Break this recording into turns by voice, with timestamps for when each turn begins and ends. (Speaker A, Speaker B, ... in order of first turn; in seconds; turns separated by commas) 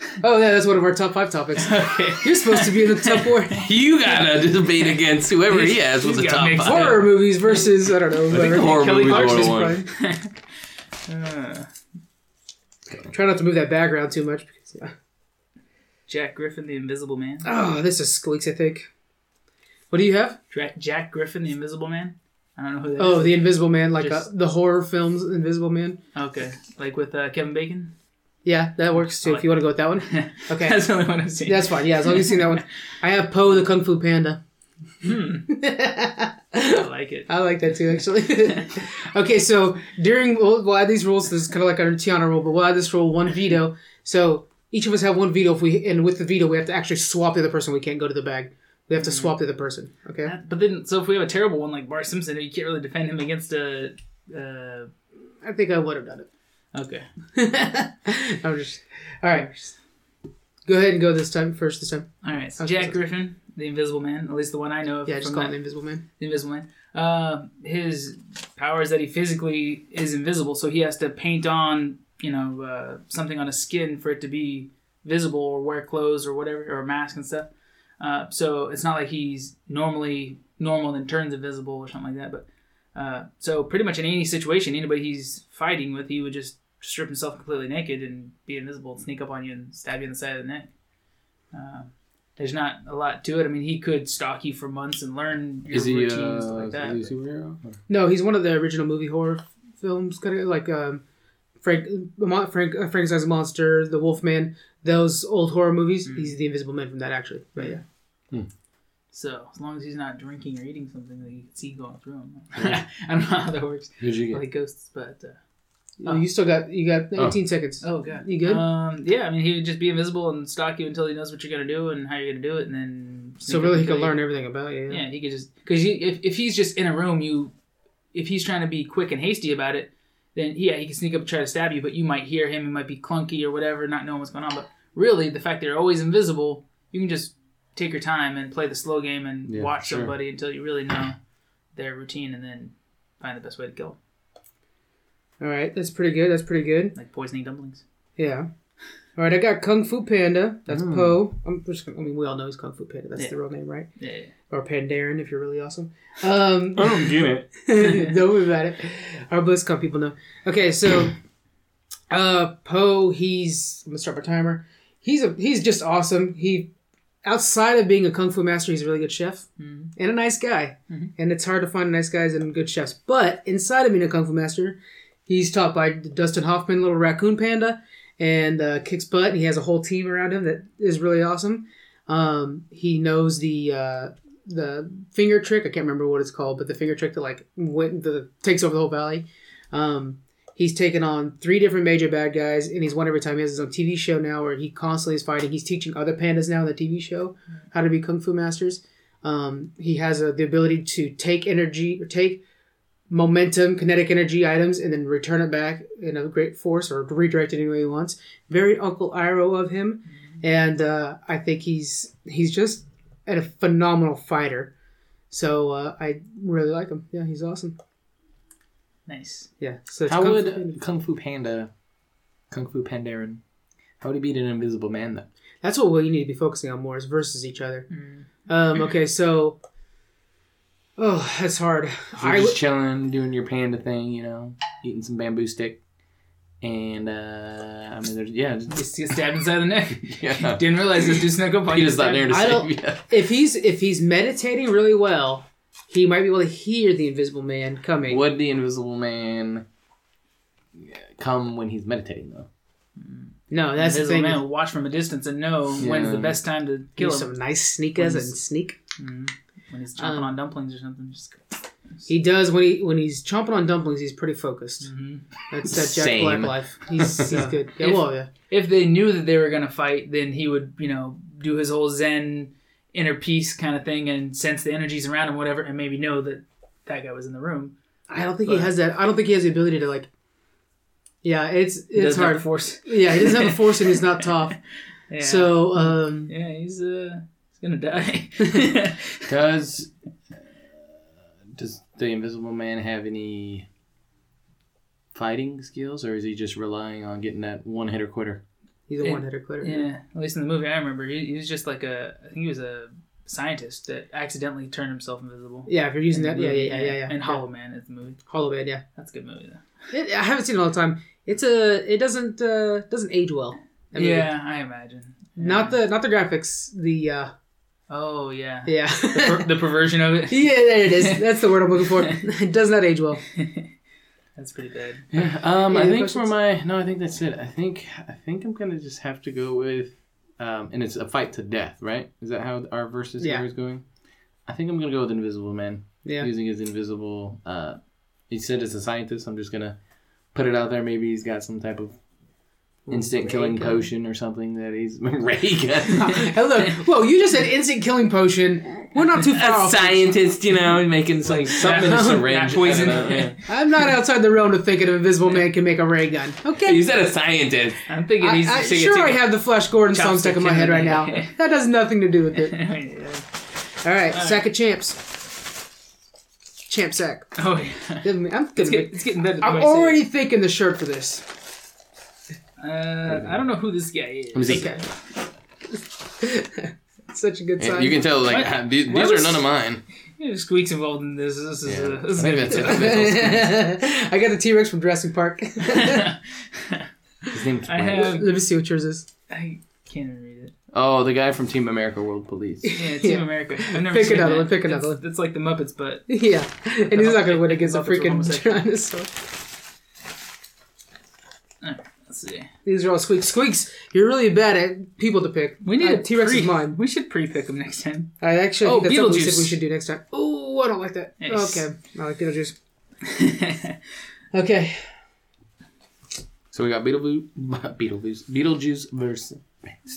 Speaker A: 0.2-3.7, Speaker B: 1.6-3.5, Speaker C: 3.5-7.0, Speaker B: 4.1-4.9, Speaker B: 5.5-7.6, Speaker A: 6.6-9.8, Speaker C: 8.3-9.8, Speaker B: 8.3-10.3, Speaker B: 11.1-11.7, Speaker A: 13.1-14.9, Speaker B: 16.1-17.5, Speaker A: 17.4-18.9, Speaker A: 19.9-20.4, Speaker B: 20.5-24.3, Speaker A: 23.0-26.0, Speaker B: 26.1-27.9, Speaker A: 28.4-30.8, Speaker B: 29.0-32.6, Speaker A: 31.4-34.4, Speaker B: 35.0-35.5, Speaker A: 35.5-50.3, Speaker B: 36.7-37.3, Speaker B: 49.0-49.4, Speaker B: 50.2-54.9, Speaker A: 55.4-56.3, Speaker B: 56.7-57.0, Speaker A: 57.3-59.5, Speaker B: 59.3-59.7, Speaker A: 60.6-63.0, Speaker B: 62.2-65.5, Speaker A: 65.1-66.0, Speaker B: 66.2-77.5, Speaker B: 78.0-90.7, Speaker B: 91.5-97.0, Speaker C: 95.7-97.8, Speaker A: 97.9-101.0, Speaker A: 101.6-107.8, Speaker B: 106.1-106.3, Speaker B: 109.1-115.4, Speaker C: 114.0-114.4, Speaker A: 116.0-118.6, Speaker B: 117.8-124.2, Speaker A: 123.5-125.0, Speaker B: 124.9-127.5, Speaker B: 128.1-141.2, Speaker C: 139.5-140.1, Speaker B: 141.7-144.0, Speaker A: 145.4-146.9, Speaker B: 146.9-147.8, Speaker A: 148.2-148.5, Speaker A: 149.2-153.9, Speaker C: 150.7-151.2, Speaker B: 154.0-154.3, Speaker A: 154.5-161.2, Speaker C: 156.8-157.5, Speaker B: 157.8-158.1, Speaker A: 162.1-166.7, Speaker A: 167.2-202.4, Speaker B: 169.6-169.9, Speaker A: 203.1-214.7, Speaker A: 215.3-217.8, Speaker B: 219.1-219.5, Speaker A: 219.6-220.8, Speaker C: 220.1-221.7, Speaker C: 222.5-223.4, Speaker C: 224.0-225.3, Speaker A: 225.6-227.9, Speaker B: 227.9-228.3, Speaker A: 228.4-229.6, Speaker A: 231.0-232.6, Speaker C: 232.2-235.8, Speaker C: 236.6-238.8, Speaker B: 238.7-242.5, Speaker C: 240.0-241.1, Speaker C: 241.7-243.0, Speaker A: 242.3-248.2, Speaker C: 248.1-249.6, Speaker C: 250.7-252.5, Speaker B: 253.0-257.3, Speaker A: 253.5-254.4, Speaker C: 255.8-256.4, Speaker A: 257.0-258.8, Speaker B: 257.9-258.3, Speaker B: 259.0-261.4, Speaker A: 260.0-260.3, Speaker A: 262.1-264.9, Speaker B: 264.8-265.2, Speaker A: 265.5-268.3, Speaker C: 265.7-267.3, Speaker B: 267.3-277.7, Speaker A: 278.1-280.1, Speaker B: 278.4-278.7, Speaker A: 281.2-284.6, Speaker B: 281.9-284.0, Speaker B: 285.1-289.3, Speaker A: 285.2-286.3, Speaker C: 289.3-291.0, Speaker C: 291.5-293.7, Speaker C: 295.1-298.4, Speaker A: 298.9-299.9, Speaker B: 299.0-308.2, Speaker A: 305.7-307.4, Speaker A: 308.3-308.8, Speaker B: 308.9-309.6, Speaker A: 309.9-314.3, Speaker B: 313.9-315.7, Speaker A: 315.4-317.3, Speaker B: 317.9-321.2, Speaker A: 318.6-319.5, Speaker A: 320.3-323.2, Speaker B: 323.3-323.7, Speaker B: 324.4-325.1, Speaker C: 325.1-333.8, Speaker A: 325.7-326.3, Speaker A: 333.2-333.4, Speaker C: 334.4-339.8, Speaker A: 336.0-336.3, Speaker C: 340.3-342.0, Speaker A: 342.9-343.8, Speaker C: 342.9-346.3, Speaker A: 345.9-350.1, Speaker C: 349.3-353.4, Speaker B: 351.2-353.5, Speaker A: 351.6-352.3, Speaker A: 353.4-356.8, Speaker C: 356.6-357.8, Speaker B: 357.9-359.3, Speaker A: 358.2-362.6, Speaker B: 359.9-361.3, Speaker B: 362.4-363.2, Speaker A: 363.8-365.1, Speaker B: 364.1-364.4, Speaker A: 366.7-367.3, Speaker B: 367.4-370.0, Speaker A: 368.0-371.3, Speaker B: 372.6-374.8, Speaker C: 374.3-374.7, Speaker A: 374.4-374.8, Speaker A: 376.2-378.0, Speaker C: 377.6-379.8, Speaker B: 378.2-379.4, Speaker B: 380.2-383.0, Speaker C: 381.6-383.5, Speaker A: 382.5-386.1, Speaker B: 385.6-386.9, Speaker C: 387.3-388.1, Speaker B: 387.6-388.3, Speaker A: 387.9-389.1, Speaker B: 389.3-390.5, Speaker C: 390.7-392.7, Speaker A: 392.6-395.0, Speaker B: 392.8-396.1, Speaker A: 396.1-399.1, Speaker B: 396.9-398.6, Speaker B: 401.6-402.5, Speaker A: 402.6-406.8, Speaker B: 405.6-408.1, Speaker A: 408.2-412.5, Speaker B: 408.6-409.6, Speaker B: 411.2-411.6, Speaker B: 413.0-413.8, Speaker A: 414.3-414.9, Speaker C: 416.5-419.8